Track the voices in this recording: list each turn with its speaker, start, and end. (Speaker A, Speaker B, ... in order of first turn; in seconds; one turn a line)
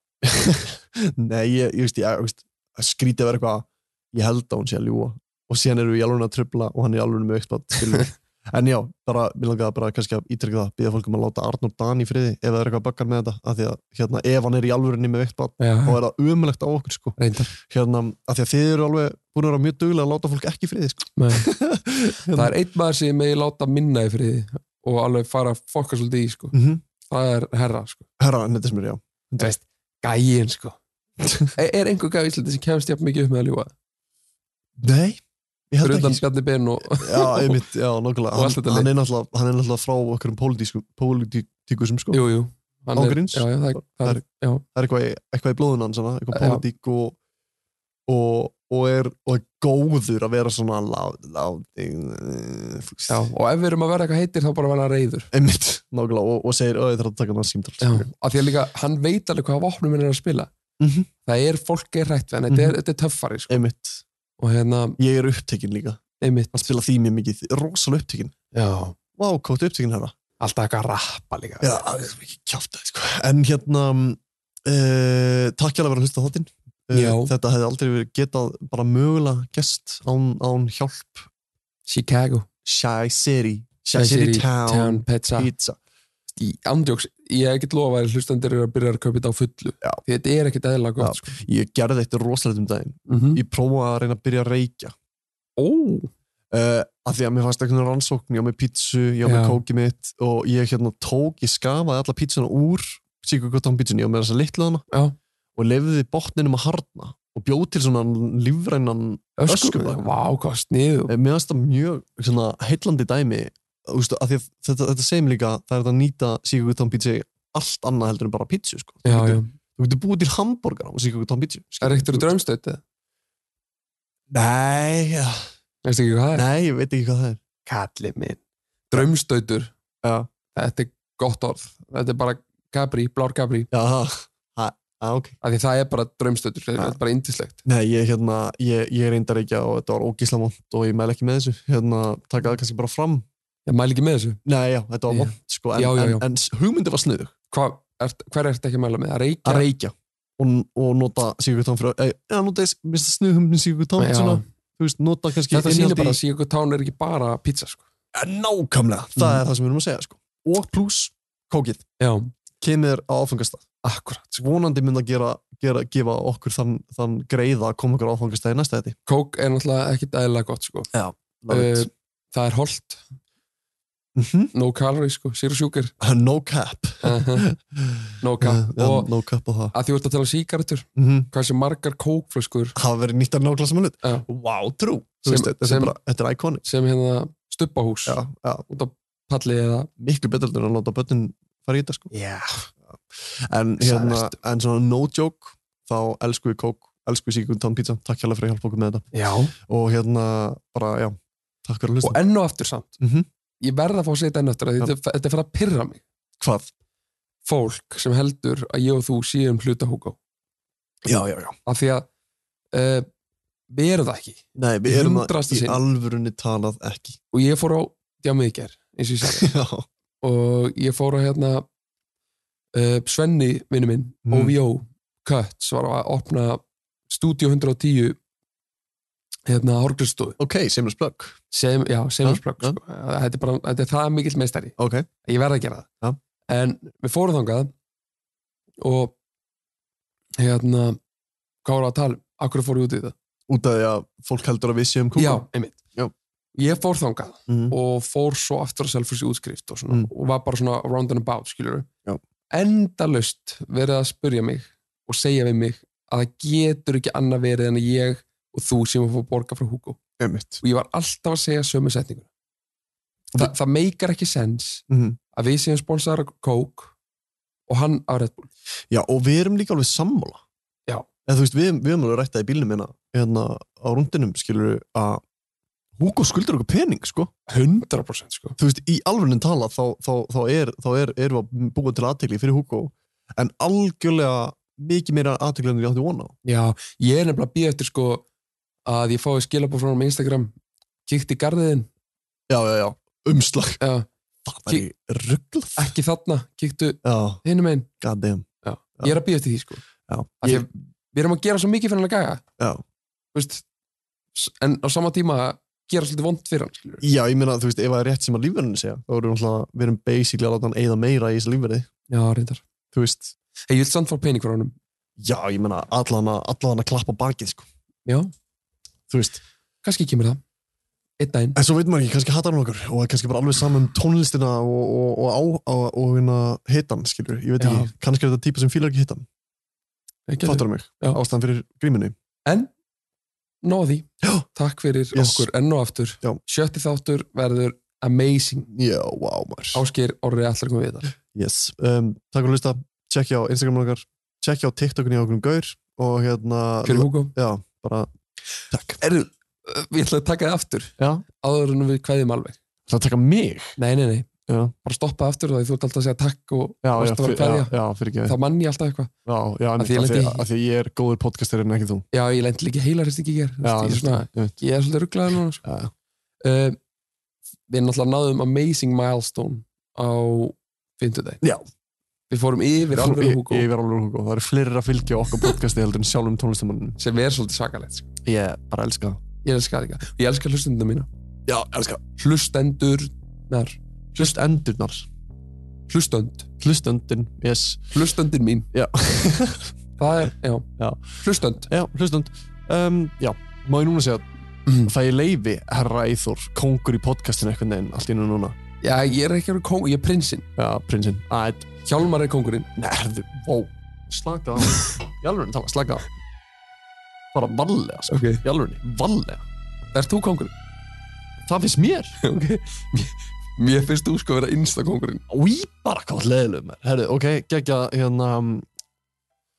Speaker A: 0.2-22.5
Speaker B: 15.6-16.0
Speaker B: 17.2-17.5
Speaker B: 21.1-21.5
Speaker B: 22.3-26.5
Speaker A: 26.5-26.8
Speaker B: 27.1-28.0
Speaker A: 28.2-29.5
Speaker B: 29.4-30.8
Speaker A: 31.2-31.5
Speaker B: 31.5-33.7
Speaker A: 34.8-36.2
Speaker B: 35.8-37.6
Speaker A: 36.8-42.2
Speaker B: 38.3-38.9
Speaker B: 42.1-44.6
Speaker A: 42.9-47.2
Speaker B: 46.3-46.6
Speaker A: 48.1-53.2
Speaker B: 53.1-55.3
Speaker A: 55.3-58.1
Speaker B: 57.8-60.5
Speaker A: 60.8-61.1
Speaker B: 61.2-63.6
Speaker A: 62.5-62.8
Speaker A: 63.5-64.0
Speaker B: 64.4-65.0
Speaker A: 65.0-66.0
Speaker B: 66.2-66.6
Speaker A: 66.5-68.3
Speaker B: 68.5-68.9
Speaker A: 69.2-70.1
Speaker B: 70.4-71.8
Speaker A: 71.6-81.3
Speaker B: 76.9-77.3
Speaker B: 81.9-82.5
Speaker A: 82.6-85.8
Speaker B: 83.9-85.5
Speaker B: 86.3-91.3
Speaker A: 91.0-94.9
Speaker B: 93.1-93.4
Speaker B: 95.6-96.1
Speaker A: 96.5-104.8
Speaker B: 99.2-99.6
Speaker B: 104.9-105.2
Speaker A: 105.5-110.1
Speaker B: 109.4-111.1
Speaker A: 111.1-122.3
Speaker B: 119.0-119.5
Speaker B: 121.8-122.8
Speaker A: 124.3-125.5
Speaker B: 125.8-126.5
Speaker A: 126.3-127.4
Speaker B: 127.7-128.4
Speaker B: 128.9-129.7
Speaker A: 130.0-130.3
Speaker B: 130.5-133.7
Speaker A: 133.7-135.3
Speaker B: 135.4-137.6
Speaker A: 137.6-143.2
Speaker B: 143.7-144.4
Speaker A: 144.4-147.3
Speaker B: 145.1-146.2
Speaker B: 147.5-149.7
Speaker A: 149.4-156.2
Speaker B: 154.0-154.4
Speaker B: 155.5-157.8
Speaker A: 158.1-161.9
Speaker B: 162.0-162.3
Speaker A: 162.6-163.7
Speaker B: 163.8-164.4
Speaker A: 164.4-168.9
Speaker B: 169.1-170.9
Speaker A: 170.9-171.9
Speaker B: 171.5-173.0
Speaker A: 174.2-174.5
Speaker B: 174.5-175.9
Speaker A: 176.0-179.7
Speaker B: 177.0-177.4
Speaker B: 178.2-179.1
Speaker B: 179.7-182.8
Speaker A: 180.9-181.3
Speaker A: 182.8-186.6
Speaker B: 185.2-185.9
Speaker B: 186.6-189.9
Speaker A: 188.1-188.7
Speaker A: 190.0-192.1
Speaker B: 192.1-192.7
Speaker A: 192.9-199.1
Speaker B: 193.8-194.3
Speaker B: 199.1-199.5
Speaker A: 199.6-202.2
Speaker B: 202.0-202.9
Speaker A: 203.0-203.3
Speaker B: 203.6-206.0
Speaker A: 206.4-206.7
Speaker B: 207.4-210.2
Speaker A: 211.0-211.6
Speaker B: 211.7-212.1
Speaker B: 212.7-213.1
Speaker B: 213.7-215.8
Speaker A: 214.5-217.2
Speaker B: 217.3-219.5
Speaker A: 219.2-219.8
Speaker B: 220.2-221.6
Speaker B: 222.7-228.2
Speaker A: 224.3-224.6
Speaker B: 229.5-230.4
Speaker A: 230.4-231.4
Speaker B: 231.5-235.9
Speaker A: 232.2-232.8
Speaker A: 234.8-235.1
Speaker B: 236.5-237.7
Speaker B: 238.8-239.1
Speaker B: 240.4-241.0
Speaker B: 241.6-243.1
Speaker A: 243.5-246.1
Speaker B: 245.2-245.8
Speaker B: 246.5-251.9
Speaker A: 247.5-247.8
Speaker B: 252.5-260.0
Speaker A: 260.2-260.6
Speaker B: 260.6-262.3
Speaker B: 263.4-264.8
Speaker A: 264.9-265.2
Speaker B: 265.3-266.9
Speaker B: 267.7-268.5
Speaker A: 268.9-270.4
Speaker A: 271.2-275.2
Speaker A: 276.0-277.3
Speaker B: 277.5-278.6
Speaker A: 278.6-286.3
Speaker B: 286.4-288.2
Speaker B: 288.9-290.5
Speaker B: 291.1-291.9
Speaker A: 292.5-293.8
Speaker B: 293.8-294.1
Speaker A: 294.4-295.9
Speaker B: 295.8-297.9
Speaker A: 297.0-297.4
Speaker A: 298.0-298.5
Speaker B: 298.6-299.8
Speaker A: 300.1-300.6
Speaker B: 300.4-302.4
Speaker B: 303.3-303.6
Speaker B: 304.3-307.0
Speaker A: 307.0-311.9
Speaker B: 312.1-312.6
Speaker A: 312.9-313.3
Speaker B: 313.7-314.8
Speaker A: 315.2-317.7
Speaker B: 318.1-318.3
Speaker A: 319.1-319.4
Speaker B: 319.8-320.4
Speaker B: 321.2-321.6
Speaker A: 321.5-329.2
Speaker B: 327.6-327.9
Speaker B: 330.3-331.2
Speaker A: 330.4-332.1
Speaker B: 333.6-338.7
Speaker A: 335.1-335.5
Speaker A: 338.7-339.8
Speaker B: 339.7-341.1
Speaker A: 341.2-348.1
Speaker B: 346.8-347.3
Speaker A: 348.7-349.0
Speaker B: 349.0-352.6
Speaker A: 351.0-351.2
Speaker A: 352.9-353.8
Speaker B: 353.8-354.3
Speaker A: 354.5-354.7
Speaker B: 354.8-359.1
Speaker A: 356.8-358.4
Speaker A: 359.2-362.1
Speaker B: 359.8-360.4
Speaker B: 362.1-365.6
Speaker A: 363.6-364.6
Speaker A: 365.6-365.9
Speaker B: 366.4-366.8
Speaker B: 367.7-371.4
Speaker B: 372.3-373.7
Speaker A: 372.9-377.0
Speaker B: 377.0-378.1
Speaker A: 378.2-379.2
Speaker B: 379.4-381.1
Speaker A: 381.4-382.0
Speaker B: 382.2-384.3
Speaker A: 384.1-385.1
Speaker B: 385.9-386.5
Speaker A: 386.6-387.9
Speaker B: 387.9-388.7
Speaker A: 388.7-389.7
Speaker B: 390.0-390.7
Speaker A: 390.8-394.3
Speaker B: 391.2-391.7
Speaker A: 394.8-398.6
Speaker B: 398.8-400.4
Speaker A: 400.6-401.8
Speaker B: 401.9-402.7
Speaker A: 402.8-406.1
Speaker A: 407.3-409.4
Speaker B: 408.1-408.4
Speaker B: 409.9-410.5
Speaker A: 411.4-412.2
Speaker B: 412.2-415.2
Speaker A: 415.3-418.6